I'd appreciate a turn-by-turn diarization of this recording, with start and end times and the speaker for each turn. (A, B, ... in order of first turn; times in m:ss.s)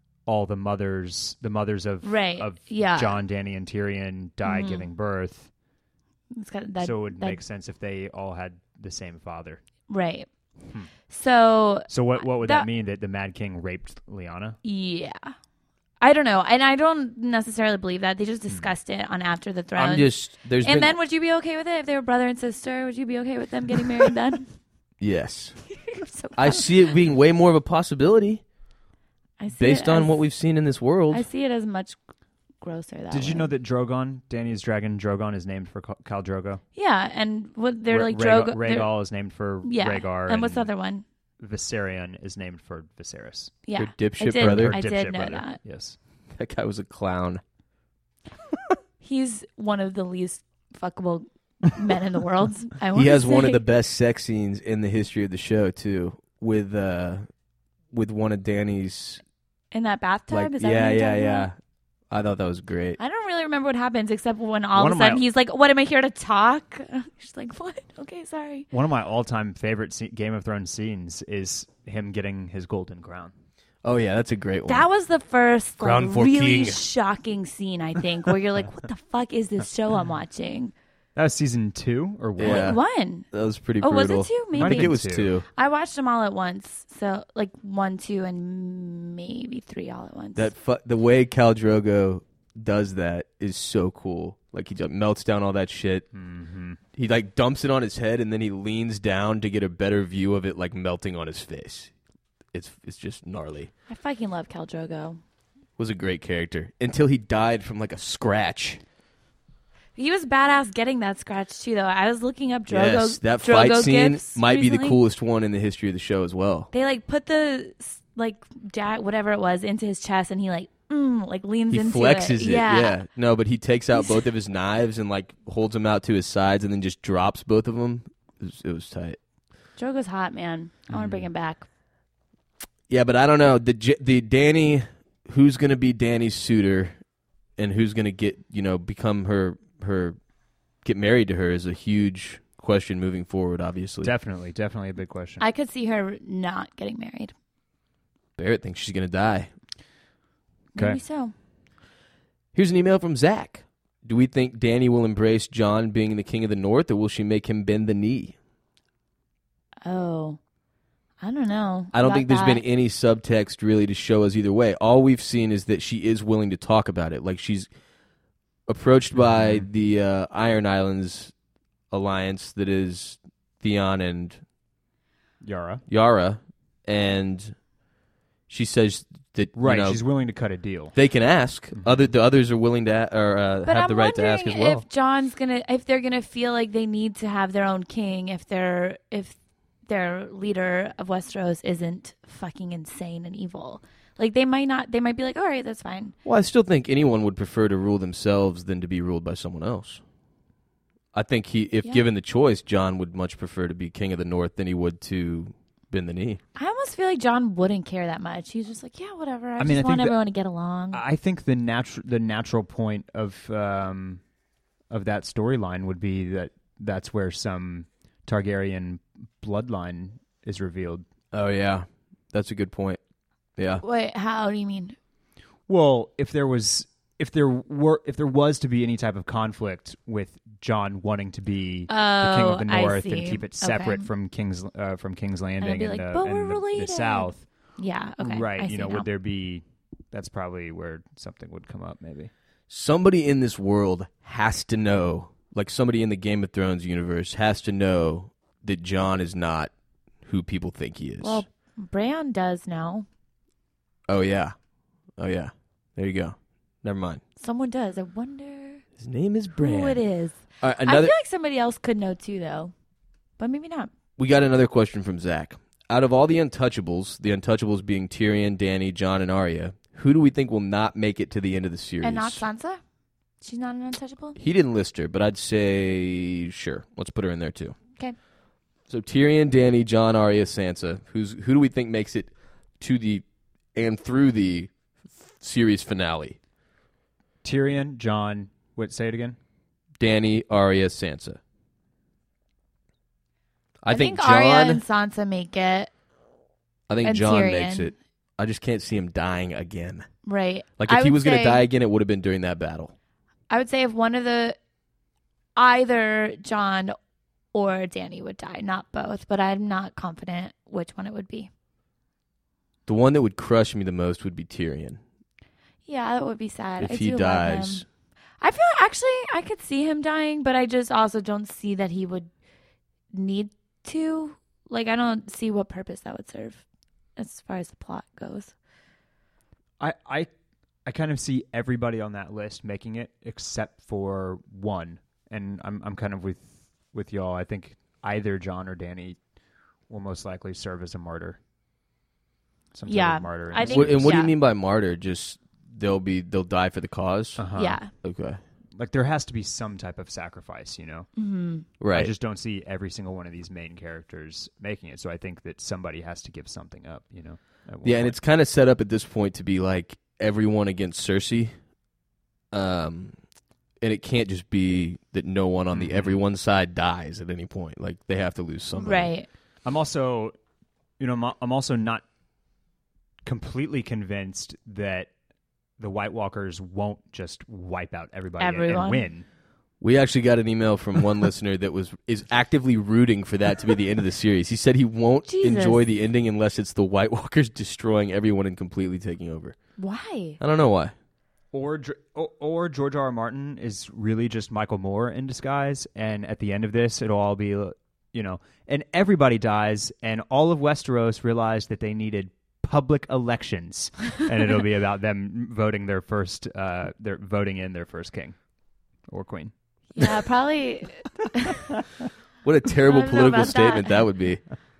0:00.2-0:05.5 A
0:02.0-0:03.2 B
0:04.4-0:04.9 B
0:06.3-0:07.4 B
0:06.8-0:09.6 A
0:09.9-0:10.3 B
0:11.1-0:12.7 B
0:11.9-0:14.6 A
0:14.6-0:15.3 B
0:16.0-0:24.5 B
0:19.8-0:21.0 C
0:25.0-0:25.8 C
0:25.9-0:26.7 B
0:26.3-0:28.4 C
0:29.4-0:30.2 B
0:29.6-0:31.2 C
0:31.1-0:32.0 B
0:32.6-0:33.5 B
0:33.1-0:36.6 A
0:36.7-0:38.9 B
0:37.9-0:40.7 A
0:39.6-0:41.0 B
0:41.4-0:43.5 A
0:43.6-0:45.6 B
0:43.8-0:44.8 C
0:44.4-0:46.0 A
0:46.4-0:47.4 C
0:49.0-0:53.6 B
0:52.9-0:57.3 C
0:57.9-0:59.2 C
0:59.7-1:01.5 B
1:00.3-1:01.6 C
1:02.1-1:03.0 C
1:03.0-1:08.7 B
1:04.7-1:05.2 A
1:08.7-1:13.3 A
1:13.8-1:14.9 C
1:14.7-1:20.7 B
1:15.8-1:16.8 C
1:21.1-1:22.8 A
1:22.4-1:22.8 C
1:22.4-1:23.3 B
1:23.3-1:25.4 C
1:23.8-1:25.0 B
1:24.6-1:25.3 A
1:25.5-1:30.5 B
1:30.4-1:36.1 C
1:36.1-1:36.8 A
1:37.0-1:41.9 C
1:42.5-1:43.7 C
1:43.9-1:45.2 B
1:45.8-1:48.8 C
1:50.0-1:55.0 B
1:52.7-1:56.7 C
1:56.7-2:03.0 B
2:01.7-2:09.2 C
2:03.9-2:04.2 B
2:09.8-2:11.6 B
2:10.9-2:11.3 A
2:12.9-2:17.0 C
2:17.6-2:20.2 C
2:20.8-2:24.1 C
2:24.0-2:25.4 A
2:25.4-2:27.3 B
2:28.4-2:29.5 C
2:30.7-2:31.3 B
2:32.5-2:38.4 C
2:39.8-2:40.4 B
2:41.2-2:42.6 B
2:41.9-2:47.7 C
2:48.7-2:51.3 C
2:49.2-2:49.7 A
2:51.9-2:54.4 C
2:55.4-2:55.8 A
2:55.9-2:57.6 C
2:58.5-3:00.0 C
2:59.6-3:00.9 A
3:00.9-3:04.8 C
3:01.7-3:02.1 A
3:03.6-3:09.4 B
3:09.9-3:16.1 B
3:16.2-3:20.0 C
3:21.1-3:26.4 C
3:26.6-3:31.0 B
3:29.6-3:30.2 A
3:30.9-3:34.2 A
3:34.9-3:41.0 A
3:41.3-3:43.0 C
3:43.6-3:43.8 C
3:43.8-3:45.0 B
3:45.7-3:57.4 A
3:51.9-3:54.1 B
3:55.6-3:59.0 B
3:58.2-4:02.3 A
4:02.7-4:09.7 C
4:10.2-4:11.4 C
4:11.2-4:13.0 B
4:14.1-4:14.5 C
4:15.2-4:17.2 C
4:17.4-4:18.8 B
4:19.0-4:20.0 C
4:19.5-4:22.7 B
4:20.6-4:21.1 C
4:23.4-4:23.9 B
4:24.2-4:32.4 C
4:32.0-4:32.8 B
4:33.4-4:34.4 B
4:34.4-4:37.8 C
4:38.9-4:43.2 C
4:43.7-4:46.4 C
4:47.4-4:49.4 A
4:50.0-4:51.4 C
4:53.8-4:54.8 C
4:53.9-4:55.9 B
4:56.9-5:00.1 C
4:57.0-4:57.9 B
5:00.2-5:01.6 B
5:00.8-5:02.9 C
5:03.5-5:04.6 B
5:05.6-5:07.0 B
5:07.5-5:11.5 B
5:12.9-5:15.0 C
5:15.8-5:17.8 B
5:16.8-5:17.8 C
5:18.4-5:22.3 B
5:23.1-5:26.6 B
5:27.2-5:28.5 B
5:29.8-5:30.3 A
5:30.8-5:39.2 A
5:39.9-5:41.4 A
5:42.7-5:44.1 A
5:42.9-5:44.3 B
5:43.6-5:48.4 C
5:47.4-5:47.8 A
5:47.6-5:47.9 B
5:48.7-5:51.1 A
5:51.2-5:51.7 B
5:51.8-5:52.1 C
5:51.9-5:58.2 A
5:57.8-6:01.5 C
6:02.5-6:03.2 C
6:03.8-6:09.1 C
6:05.7-6:06.2 A
6:08.7-6:09.3 B
6:09.6-6:10.3 A
6:11.0-6:12.0 A
6:13.2-6:15.1 A
6:15.8-6:19.2 A
6:18.4-6:19.0 B
6:19.8-6:29.5 C
6:25.3-6:25.8 B
6:29.8-6:30.4 B
6:30.4-6:30.9 C
6:31.5-6:48.4 A
6:49.1-6:49.5 A
6:49.9-6:51.7 B
6:52.4-6:54.4 C
6:52.8-6:54.0 B